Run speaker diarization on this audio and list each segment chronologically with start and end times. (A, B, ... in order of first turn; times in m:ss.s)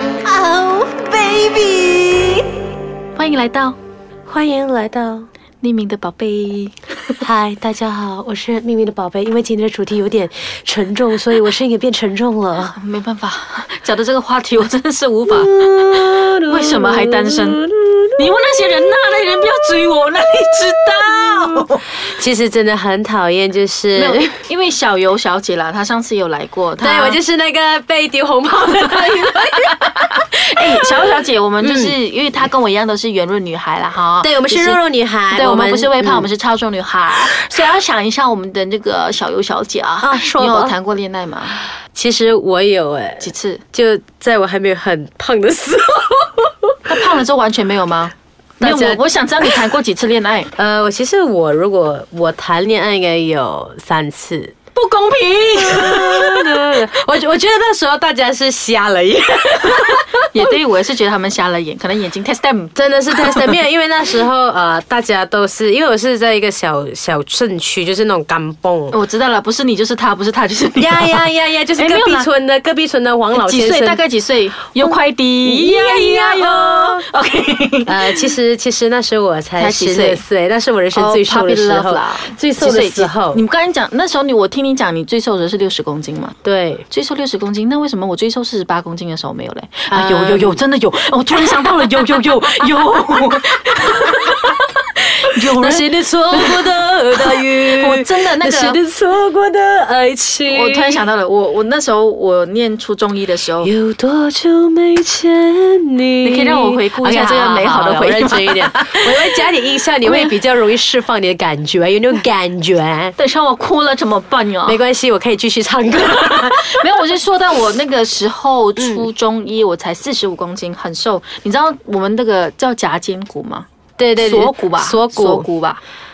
0:00.2-0:01.5 A
0:03.1-0:03.8 A
0:04.3-0:05.3 B
0:05.6-0:07.2 A
0:07.2-0:12.8 B
0:12.7-0:17.6 A
0:15.3-0:18.2 B
0:18.2-0:21.9 A
0:21.2-0:24.2 B
0:23.9-0:27.2 A
0:26.8-0:29.7 B
0:29.5-0:34.8 A
0:31.6-0:31.9 B
0:34.2-0:36.2 B
0:35.3-0:41.6 A
0:40.0-0:40.7 B
0:41.9-0:47.2 B
0:43.2-0:43.6 A
0:46.8-0:50.5 A
0:48.6-0:49.6 B
0:50.6-0:54.5 B
0:54.7-0:56.8 A
0:55.6-1:00.5 B
1:00.3-1:03.6 A
1:02.7-1:09.0 B
1:08.9-1:11.2 A
1:10.8-1:14.0 B
1:11.8-1:12.3 A
1:13.3-1:18.3 A
1:14.8-1:17.0 B
1:17.8-1:23.4 B
1:19.6-1:20.2 A
1:20.9-1:26.4 A
1:26.4-1:26.8 B
1:26.9-1:38.8 A
1:29.9-1:30.6 B
1:31.3-1:32.3 B
1:33.7-1:34.5 B
1:35.4-1:41.0 B
1:40.5-1:43.7 A
1:43.6-1:53.1 B
1:46.2-1:49.3 A
1:50.0-1:50.3 A
1:53.2-1:54.8 A
1:54.6-1:56.8 B
1:56.1-2:03.7 A
1:58.8-1:59.1 B
2:04.0-2:05.5 B
2:04.2-2:05.8 A